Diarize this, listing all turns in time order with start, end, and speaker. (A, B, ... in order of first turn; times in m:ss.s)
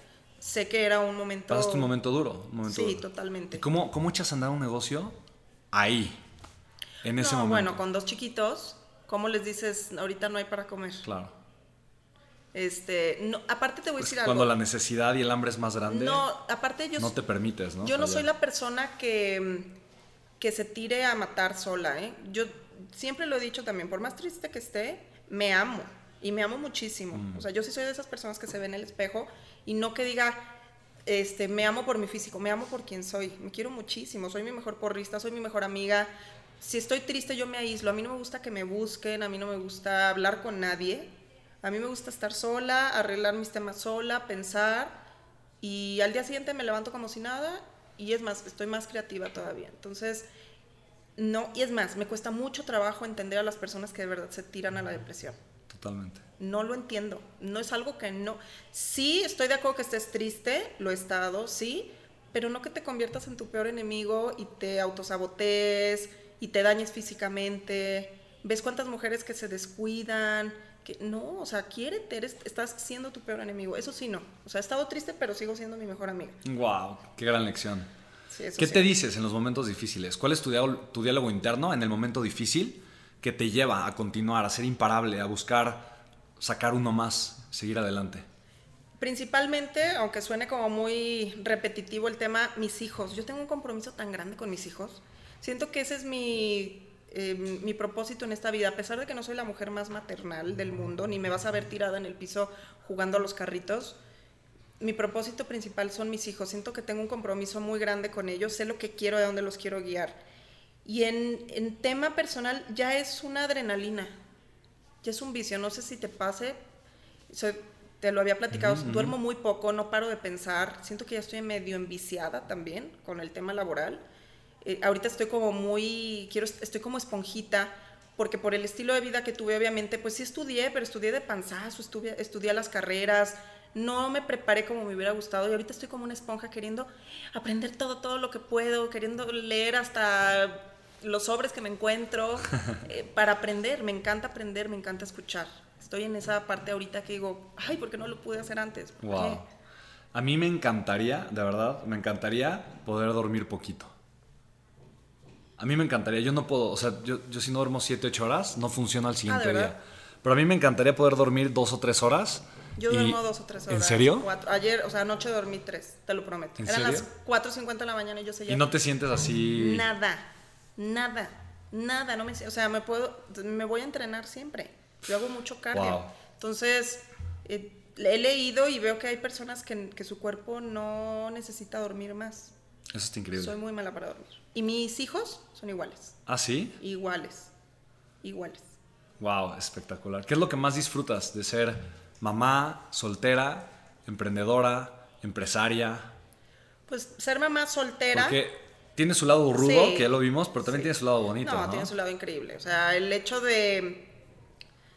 0:00.4-0:01.9 A
0:01.5-0:05.2 B
0:02.6-0:03.6 A
0:05.7-0:06.2 B
0:07.0-0:07.8 B
0:07.2-0:11.1 A
0:11.0-0:11.3 B
0:12.5-0:14.5 A
0:14.0-0:16.2 B
0:15.9-0:17.1 A
0:17.0-0:18.3 B
0:17.8-0:19.7 A
0:20.4-0:30.5 A
0:27.1-0:27.4 B
0:31.0-0:41.1 A
0:41.6-0:45.0 A
0:45.6-0:50.2 A
0:51.2-0:55.4 A
0:55.7-0:56.2 B
0:56.4-1:16.4 A
1:16.4-1:17.9 B
1:18.3-1:18.9 A
1:18.6-1:28.2 B
1:29.0-1:44.0 A
1:44.8-1:50.2 A
1:50.8-1:54.2 A
1:55.0-1:56.6 A
1:57.3-2:04.0 A
1:58.5-1:59.1 B
2:04.6-2:29.4 A
2:29.0-2:29.4 B
2:30.1-2:33.9 B
2:35.6-2:44.2 B
2:39.3-2:39.7 A
2:42.8-2:48.7 A
2:46.6-2:47.1 B
2:48.5-2:49.8 B
2:49.5-3:02.5 A
2:55.7-2:56.1 B
3:02.9-3:03.5 B
3:03.3-3:06.2 A
3:06.2-3:06.8 B
3:06.8-3:07.5 A
3:08.2-3:08.7 A
3:09.2-3:16.1 B
3:16.9-3:18.4 A
3:18.1-3:21.9 B
3:19.5-3:24.1 A